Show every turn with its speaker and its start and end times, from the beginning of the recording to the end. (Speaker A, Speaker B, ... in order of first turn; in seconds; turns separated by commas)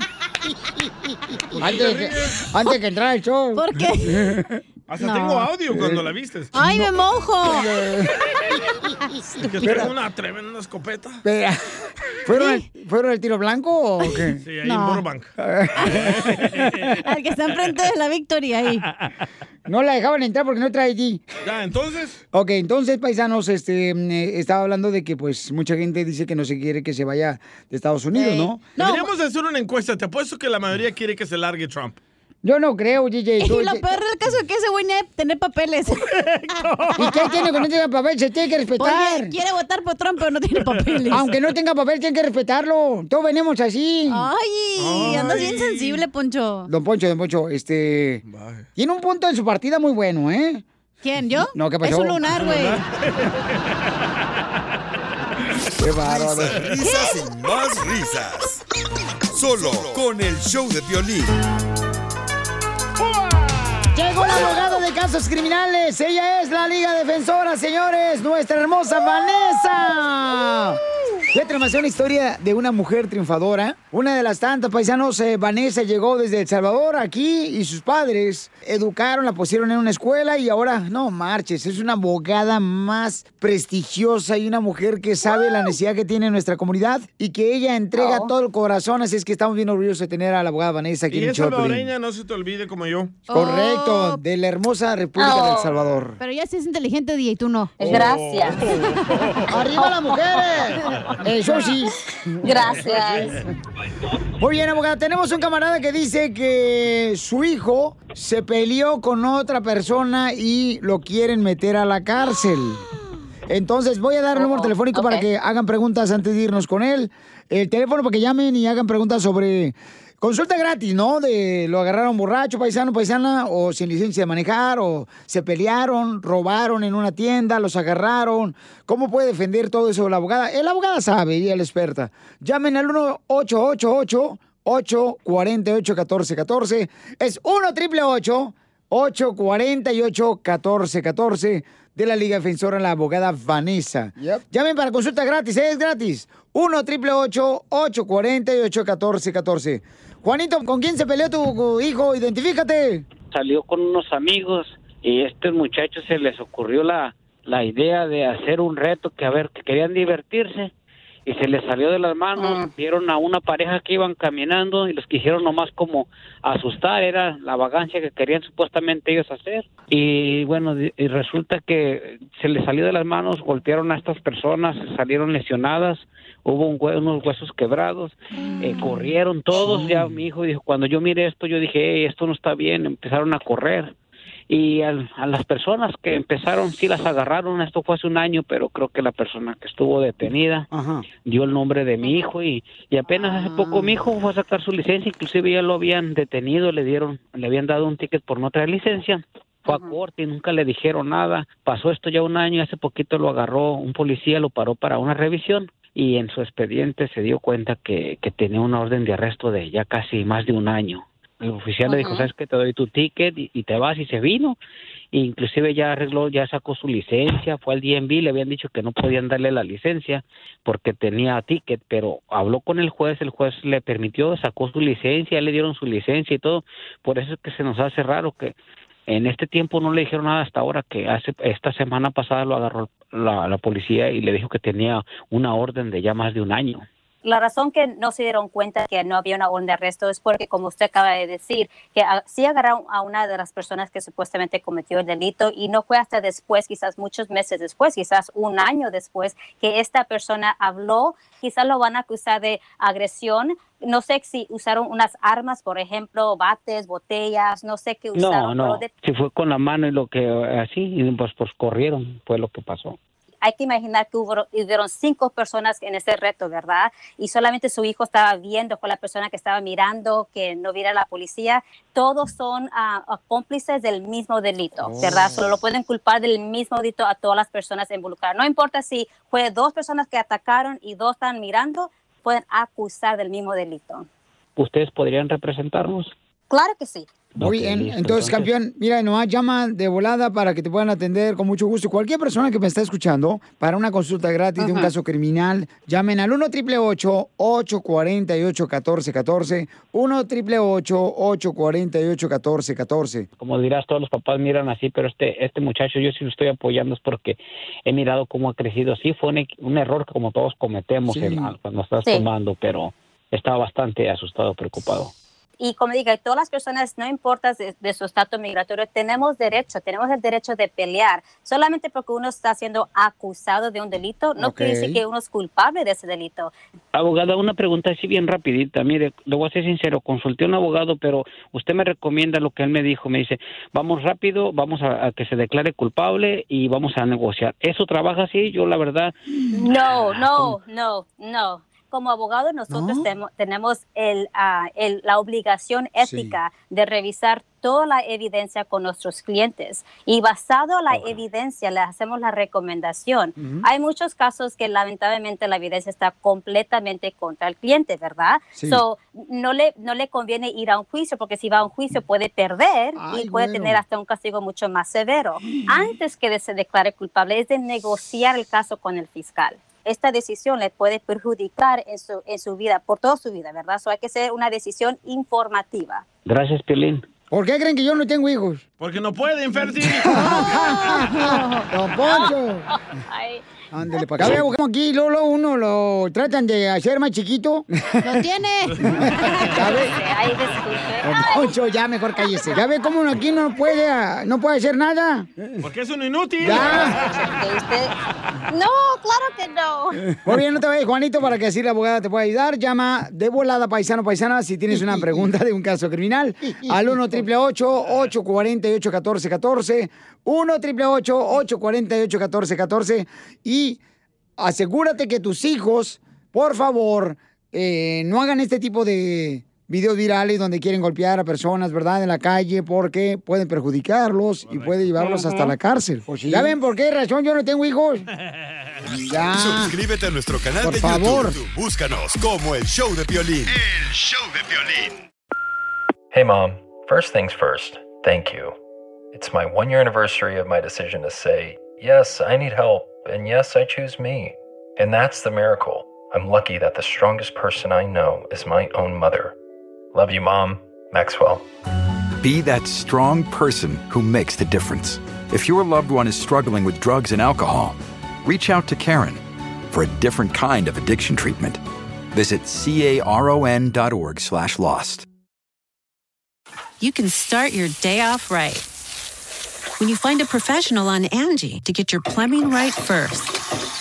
Speaker A: 1.5-4.6, Speaker B: 1.7-2.1, Speaker C: 3.6-4.3, Speaker B: 4.9-6.6, Speaker C: 5.0-5.5, Speaker A: 5.7-6.1, Speaker C: 6.5-7.8, Speaker A: 6.6-6.8, Speaker A: 7.4-8.2, Speaker B: 9.3-11.2, Speaker A: 9.6-9.9, Speaker A: 11.2-16.6, Speaker C: 12.3-12.7, Speaker B: 14.4-15.3, Speaker C: 14.7-15.0, Speaker C: 15.8-16.2, Speaker B: 15.9-16.9, Speaker C: 16.9-18.8, Speaker B: 17.5-17.8, Speaker A: 19.7-21.2, Speaker B: 21.4-22.2, Speaker A: 22.3-28.6, Speaker C: 28.1-29.1, Speaker B: 28.8-32.0, Speaker A: 32.4-33.9, Speaker C: 33.4-36.0, Speaker B: 36.2-36.9, Speaker A: 37.0-39.4, Speaker C: 38.8-41.3, Speaker A: 41.1-44.3, Speaker C: 44.1-46.7, Speaker B: 44.8-46.0, Speaker A: 46.7-48.2, Speaker B: 48.3-48.7, Speaker A: 48.8-50.6, Speaker C: 51.0-52.8, Speaker A: 51.5-52.2, Speaker B: 52.3-53.4, Speaker A: 55.8-56.7, Speaker D: 56.0-58.6, Speaker C: 56.8-57.1, Speaker D: 59.3-61.4, Speaker B: 63.3-63.8, Speaker A: 63.9-91.9, Speaker E: 87.9-88.3, Speaker B: 91.1-93.2, Speaker C: 93.3-94.2, Speaker A: 93.3-96.2, Speaker E: 95.2-95.7, Speaker C: 96.2-97.9, Speaker E: 97.8-98.6, Speaker B: 97.8-99.5, Speaker A: 99.5-103.5, Speaker E: 99.8-100.6, Speaker E: 102.4-103.4, Speaker A: 104.4-112.9, Speaker A: 113.5-153.1, Speaker E: 114.3-115.3, Speaker F: 153.3-160.7, Speaker F: 161.3-183.9, Speaker E: 162.4-162.7, Speaker F: 184.5-190.7, Speaker A: 190.7-191.1, Speaker F: 191.2-214.6, Speaker E: 192.0-192.3, Speaker E: 199.7-200.0, Speaker E: 211.9-212.3, Speaker F: 215.1-228.6, Speaker F: 229.1-236.8, Speaker E: 237.2-258.9, Speaker F: 258.2-263.0, Speaker E: 263.4-284.1, Speaker A: 274.8-275.5, Speaker F: 284.6-286.1, Speaker E: 286.5-287.1, Speaker F: 287.4-288.5, Speaker A: 287.4-303.3, Speaker E: 294.6-294.9, Speaker F: 303.4-315.1, Speaker A: 311.1-311.5, Speaker E: 315.6-326.5, Speaker A: 324.4-325.0, Speaker F: 326.9-339.1, Speaker E: 339.5-376.1, Speaker A: 342.7-343.1, Speaker A: 346.0-346.4, Speaker A: 353.4-353.6, Speaker A: 358.6-358.8, Speaker A: 363.0-363.8, Speaker F: 376.3-377.1, Speaker A: 377.3-378.6, Speaker B: 378.8-380.2, Speaker A: 379.8-382.7, Speaker C: 380.1-381.7, Speaker E: 382.0-382.3, Speaker E: 383.1-383.4, Speaker A: 383.7-388.2, Speaker E: 384.0-384.3, Speaker C: 388.0-389.7, Speaker B: 388.7-389.1, Speaker A: 388.8-390.0, Speaker E: 389.6-391.5, Speaker A: 391.0-395.3, Speaker E: 392.4-392.9, Speaker B: 395.6-397.1, Speaker A: 396.4-397.0, Speaker E: 396.4-397.9, Speaker E: 398.5-400.0, Speaker A: 400.2-413.8, Speaker A: 414.4-428.1, Speaker B: 424.5-425.1, Speaker A: 429.0-429.8, Speaker D: 429.3-435.0, Speaker A: 430.6-431.4, Speaker G: 436.1-438.6, Speaker G: 439.1-449.4, Speaker G: 449.9-451.4, Speaker H: 452.2-461.6, Speaker H: 462.1-465.1, Speaker I: 466.8-468.7, Speaker I: 469.8-473.4